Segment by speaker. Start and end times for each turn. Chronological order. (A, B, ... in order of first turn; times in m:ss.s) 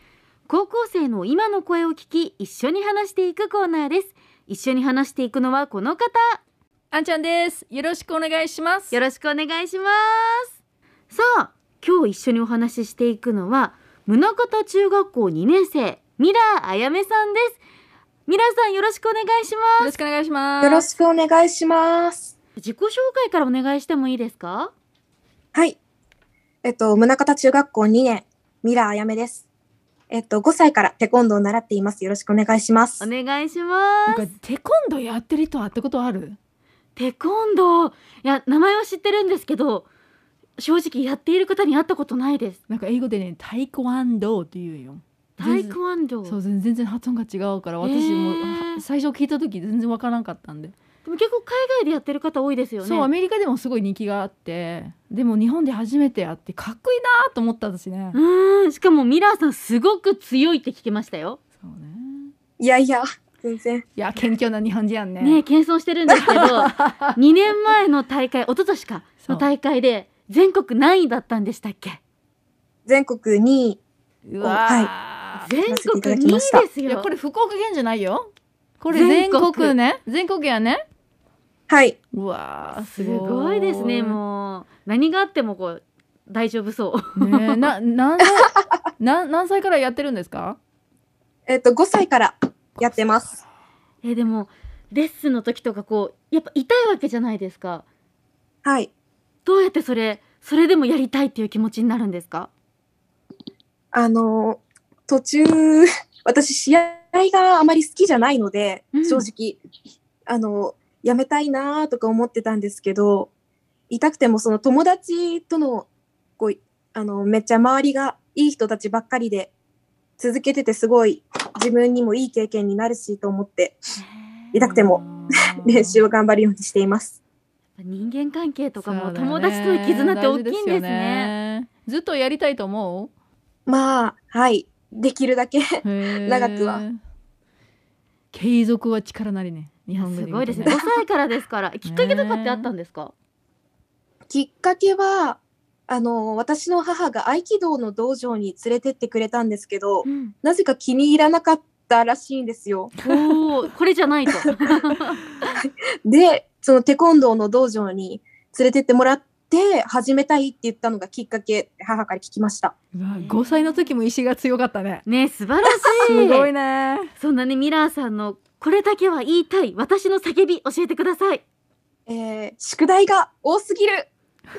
0:00.5-0:06.4 A
0:06.9-0:09.0 B
0:08.9-0:10.5 A
0:11.1-0:17.6 A
0:18.3-0:19.9 A
0:19.8-0:20.9 B
0:20.6-0:22.3 C
0:22.6-0:24.7 A
0:26.6-0:29.4 C
0:30.1-0:33.1 C
0:33.0-0:34.3 A
0:34.1-0:36.4 B
0:37.0-0:39.8 A
0:40.6-0:42.6 A
0:42.7-0:50.7 B
0:45.4-0:46.4 A
0:47.8-0:48.8 A
0:51.0-0:53.1 A
0:52.8-0:58.2 B
0:58.1-1:01.4 A
1:01.6-1:02.3 B
1:02.6-1:03.8 C
1:04.0-1:05.4 B
1:05.2-1:12.0 A
1:06.1-1:07.2 B
1:09.2-1:09.5 B
1:12.8-1:13.8 C
1:14.3-1:15.5 B
1:14.4-1:14.9 C
1:15.4-1:17.1 A
1:15.7-1:16.6 C
1:16.8-1:20.8 B
1:18.9-1:19.8 A
1:21.7-1:22.0 C
1:22.1-1:24.2 B
1:22.7-1:27.7 A
1:27.2-1:30.6 B
1:31.5-1:33.4 C
1:34.0-1:37.8 A
1:38.6-1:38.9 C
1:39.4-1:42.5 A
1:43.9-1:49.6 C
1:48.9-1:49.2 A
1:50.3-1:53.3 C
1:53.9-1:55.9 C
1:56.4-1:59.5 C
2:00.2-2:03.8 C
2:04.0-2:04.6 A
2:04.5-2:05.0 C
2:04.6-2:06.0 B
2:05.6-2:07.2 C
2:07.8-2:11.3 A
2:08.8-2:13.1 B
2:13.7-2:16.8 C
2:15.8-2:17.0 B
2:18.3-2:20.8 B
2:19.9-2:23.1 A
2:21.8-2:22.7 B
2:24.3-2:32.9 C
2:30.0-2:30.3 A
2:33.0-2:35.2 A
2:33.0-2:33.4 B
2:35.6-2:42.7 C
2:42.9-2:45.0 B
2:43.1-2:43.8 A
2:45.0-2:46.5 A
2:46.0-2:47.1 B
2:47.2-2:51.4 A
2:52.1-2:54.1 C